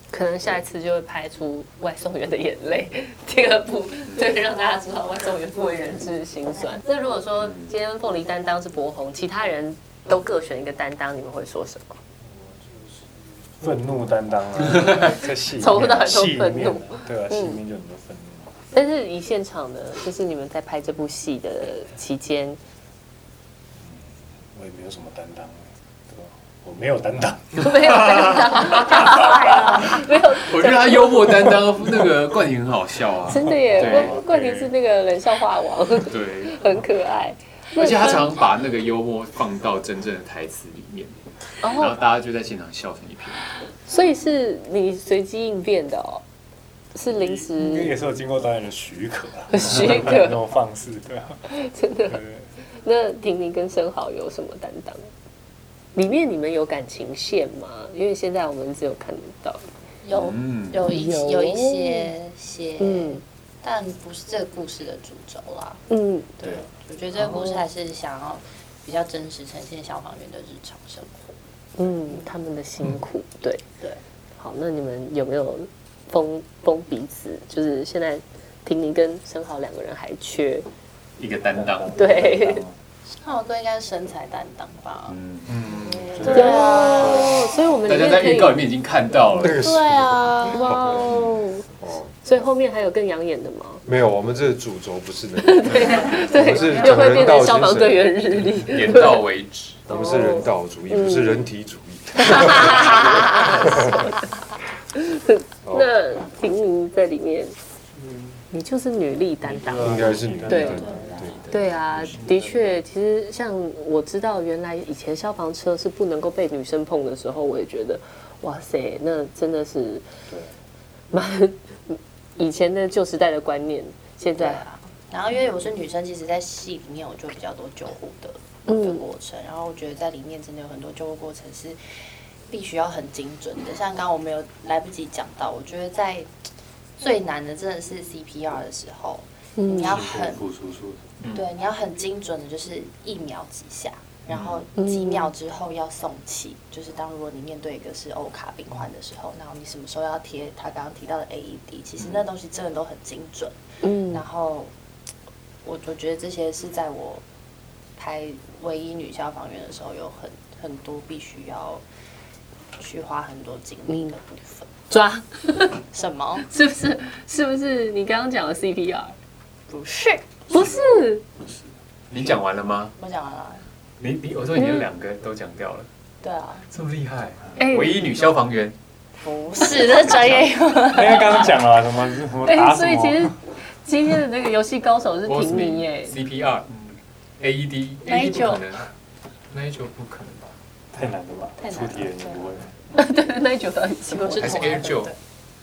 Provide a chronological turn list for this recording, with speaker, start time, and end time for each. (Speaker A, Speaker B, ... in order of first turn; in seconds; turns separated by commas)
Speaker A: 0.1-12.0, Speaker B: 7.4-7.7, Speaker C: 12.2-18.6, Speaker A: 15.6-17.6, Speaker A: 18.7-22.6, Speaker C: 23.8-28.4, Speaker A: 27.6-31.6, Speaker B: 27.8-29.0, Speaker D: 28.7-30.1, Speaker B: 30.3-34.1, Speaker A: 33.3-38.3, Speaker C: 33.4-34.7, Speaker B: 36.0-36.6, Speaker B: 37.7-43.6, Speaker A: 41.6-42.0, Speaker A: 43.9-46.2, Speaker A: 46.9-48.0, Speaker C: 47.0-51.5, Speaker A: 49.5-50.4, Speaker A: 51.5-52.2, Speaker C: 52.1-52.5, Speaker A: 52.8-55.1, Speaker A: 56.0-59.6, Speaker D: 60.0-65.8, Speaker B: 60.1-60.9, Speaker A: 60.8-62.1, Speaker A: 62.8-63.2, Speaker A: 65.9-66.6, Speaker D: 66.4-71.3, Speaker A: 67.1-67.6, Speaker A: 71.8-73.6, Speaker A: 74.4-80.7, Speaker B: 81.2-81.9, Speaker C: 81.5-82.7, Speaker A: 81.9-82.6, Speaker D: 83.2-85.2, Speaker C: 85.1-87.4, Speaker D: 85.8-87.4, Speaker B: 86.2-86.9, Speaker A: 86.3-88.6, Speaker B: 87.8-89.7, Speaker E: 89.3-91.2, Speaker A: 89.6-91.7, Speaker D: 90.3-90.5, Speaker E: 91.8-92.1, Speaker A: 92.2-93.8, Speaker E: 93.8-98.1, Speaker A: 95.4-99.2, Speaker D: 95.7-97.3, Speaker B: 98.5-99.8, Speaker E: 99.9-104.0, Speaker A: 99.9-101.4, Speaker A: 102.2-104.1, Speaker A: 104.9-107.5, Speaker E: 105.6-105.9, Speaker C: 108.0-108.4, Speaker A: 108.5-110.8, Speaker C: 109.4-112.8, Speaker E: 109.7-111.2, Speaker D: 110.7-111.4, Speaker B: 111.1-111.6, Speaker A: 111.5-120.1, Speaker A: 121.1-124.6, Speaker D: 124.3-131.8, Speaker A: 128.7-129.1, Speaker D: 132.5-136.3, Speaker D: 137.0-140.4, Speaker A: 139.6-140.0, Speaker C: 139.7-141.1, Speaker B: 141.2-141.5, Speaker D: 141.3-153.6, Speaker B: 144.3-144.6, Speaker A: 144.8-145.3, Speaker B: 152.0-152.2, Speaker A: 153.8-154.2, Speaker D: 154.1-154.7, Speaker D: 155.6-157.2, Speaker D: 158.0-161.8, Speaker D: 162.8-164.7, Speaker A: 163.9-164.2, Speaker A: 164.9-165.8, Speaker D: 165.9-166.5, Speaker A: 166.4-169.2, Speaker D: 169.7-170.3, Speaker A: 170.5-171.2, Speaker B: 172.1-172.9, Speaker D: 173.0-173.6, Speaker B: 174.0-175.9, Speaker A: 174.6-174.8, Speaker D: 176.2-176.6, Speaker B: 176.7-178.8, Speaker A: 177.6-178.0, Speaker D: 179.2-181.6, Speaker B: 179.6-180.5, Speaker C: 180.8-183.3, Speaker A: 182.4-186.1, Speaker B: 185.2-188.9, Speaker D: 188.1-188.7, Speaker B: 189.5-190.5, Speaker C: 190.9-192.7, Speaker D: 191.6-192.6, Speaker A: 192.9-194.8, Speaker D: 194.1-195.2, Speaker B: 194.4-195.1